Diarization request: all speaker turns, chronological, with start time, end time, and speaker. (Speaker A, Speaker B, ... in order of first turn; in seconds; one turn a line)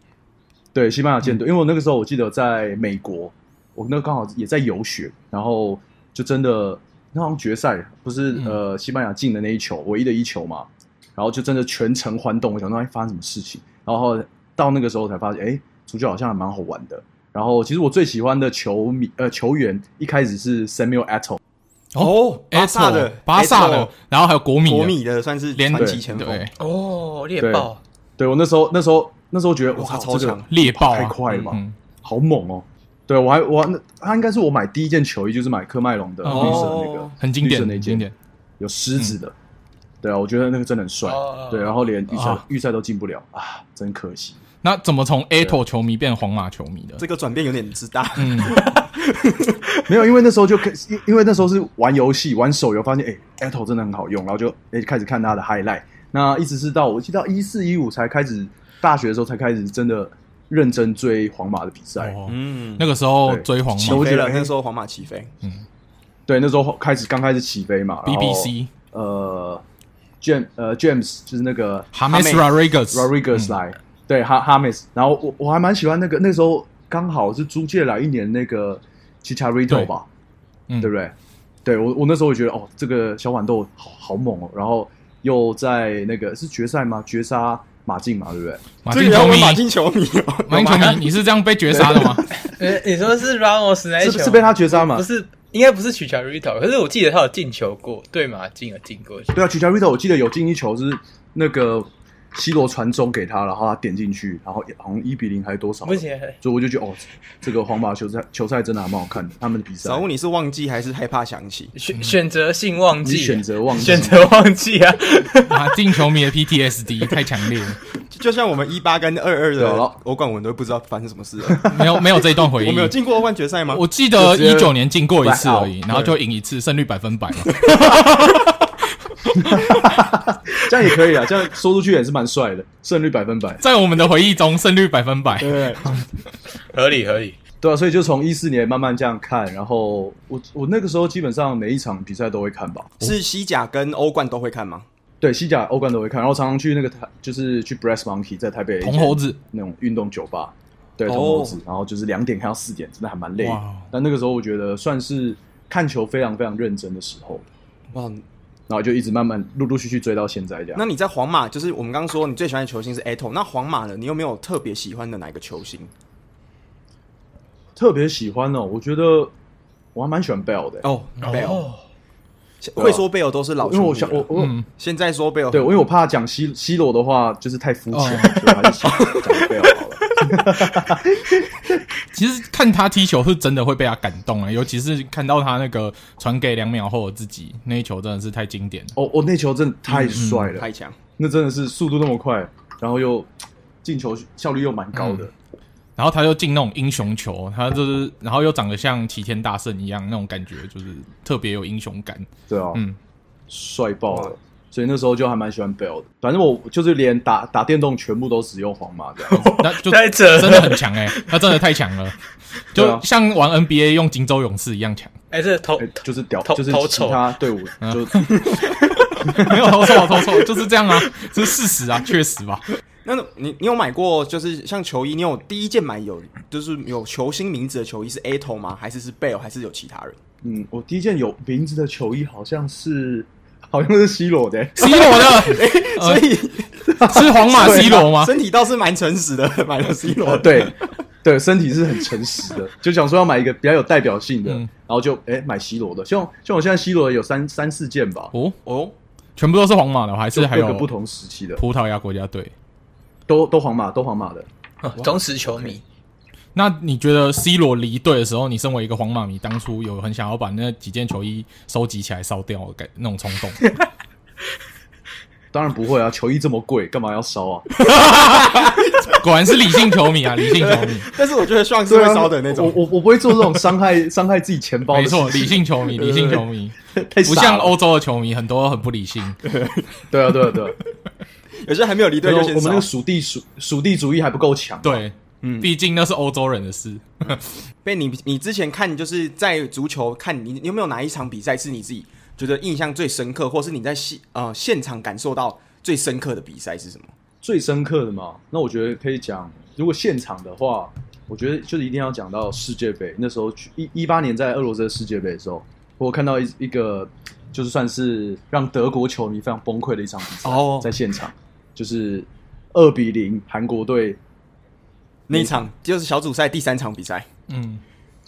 Speaker A: 0.7-21.4
Speaker B: 21.9-25.0
Speaker C: 22.0-23.9
Speaker C: 24.6-26.5
Speaker B: 25.5-26.5
Speaker A: 25.7-26.0
Speaker D: 26.6-27.8
Speaker A: 27.4-38.1
Speaker C: 29.7-30.5
Speaker B: 30.5-31.8
Speaker B: 36.2-38.1
Speaker C: 36.3-37.1
Speaker A: 38.6-39.3
Speaker A: 40.0-44.4
Speaker D: 41.0-41.7
Speaker B: 42.1-42.4
Speaker B: 44.6-47.0
Speaker C: 47.0-49.6
Speaker B: 48.2-48.6
Speaker A: 49.9-62.2
Speaker B: 62.0-64.1
Speaker C: 62.2-62.9
Speaker A: 63.2-64.5
Speaker C: 63.7-65.3
Speaker A: 66.3-69.6
Speaker B: 68.0-68.7
Speaker A: 70.2-71.9
Speaker B: 71.9-73.5
Speaker C: 72.1-72.4
Speaker A: 72.9-80.1
Speaker A: 80.8-81.1
Speaker A: 81.6-88.6
Speaker B: 88.8-89.6
Speaker C: 88.9-91.0
Speaker B: 90.5-92.3
Speaker A: 91.7-92.4
Speaker D: 92.4-99.3
Speaker A: 94.0-95.0
Speaker A: 99.3-110.0
Speaker D: 105.8-106.4
Speaker C: 109.8-111.7
Speaker D: 111.7-115.8
Speaker A: 113.0-114.2
Speaker B: 115.5-117.8
Speaker C: 118.1-121.7
Speaker A: 119.5-119.9
Speaker A: 121.5-121.9
Speaker B: 121.7-123.0
Speaker C: 122.5-123.8
Speaker B: 123.7-129.9
Speaker A: 124.1-126.1
Speaker A: 129.3-133.6
Speaker B: 133.6-136.0
Speaker C: 135.4-136.0
Speaker D: 136.7-137.4
Speaker A: 137.6-142.9
Speaker C: 143.0-144.8
Speaker A: 145.2-157.4
Speaker B: 148.8-149.4
Speaker C: 151.1-151.6
Speaker B: 153.4-153.9
Speaker C: 157.9-158.2
Speaker A: 158.7-160.8
Speaker C: 160.8-165.9
Speaker A: 167.8-169.3
Speaker A: 169.9-170.8
Speaker C: 170.8-171.7
Speaker D: 171.2-171.8
Speaker C: 172.6-175.8
Speaker A: 172.8-173.0
Speaker A: 173.6-174.6
Speaker B: 174.3-174.6
Speaker A: 175.5-181.8
Speaker B: 177.9-178.7
Speaker C: 178.8-179.5
Speaker B: 182.1-188.9
Speaker A: 188.9-190.7
Speaker B: 189.9-190.5
Speaker C: 190.1-191.0
Speaker A: 191.2-193.3
Speaker A: 193.8-195.3
Speaker B: 194.9-195.3
Speaker B: 196.0-203.0
Speaker A: 202.5-202.8
Speaker A: 203.5-209.5
Speaker D: 209.3-211.6
Speaker B: 209.4-212.2
Speaker B: 212.7-215.1
Speaker A: 212.7-213.0
Speaker D: 215.3-217.2
Speaker A: 215.8-218.4
Speaker B: 217.8-218.7
Speaker A: 219.2-219.5
Speaker B: 219.3-222.6
Speaker D: 219.8-220.3
Speaker C: 223.0-230.2
Speaker A: 230.4-235.0
Speaker B: 234.8-236.3
Speaker C: 234.8-240.9
Speaker A: 236.8-238.0
Speaker B: 237.0-238.3
Speaker A: 240.2-248.3
Speaker C: 248.6-248.9
Speaker B: 249.3-250.9
Speaker A: 250.3-251.6
Speaker B: 251.6-252.5
Speaker A: 253.3-254.5
Speaker D: 254.8-255.8
Speaker B: 256.5-263.6
Speaker A: 265.5-267.7
Speaker B: 267.8-271.1
Speaker C: 270.4-272.8
Speaker A: 271.9-277.8
Speaker B: 274.9-279.4
Speaker C: 279.4-279.9
Speaker A: 280.1-280.8
Speaker C: 281.6-282.9
Speaker A: 282.2-285.0
Speaker B: 284.8-287.5
Speaker C: 285.4-285.7
Speaker C: 287.8-297.1
Speaker A: 297.4-314.2
Speaker C: 310.4-310.9
Speaker C: 315.3-317.3
Speaker A: 315.3-315.6
Speaker B: 317.5-317.8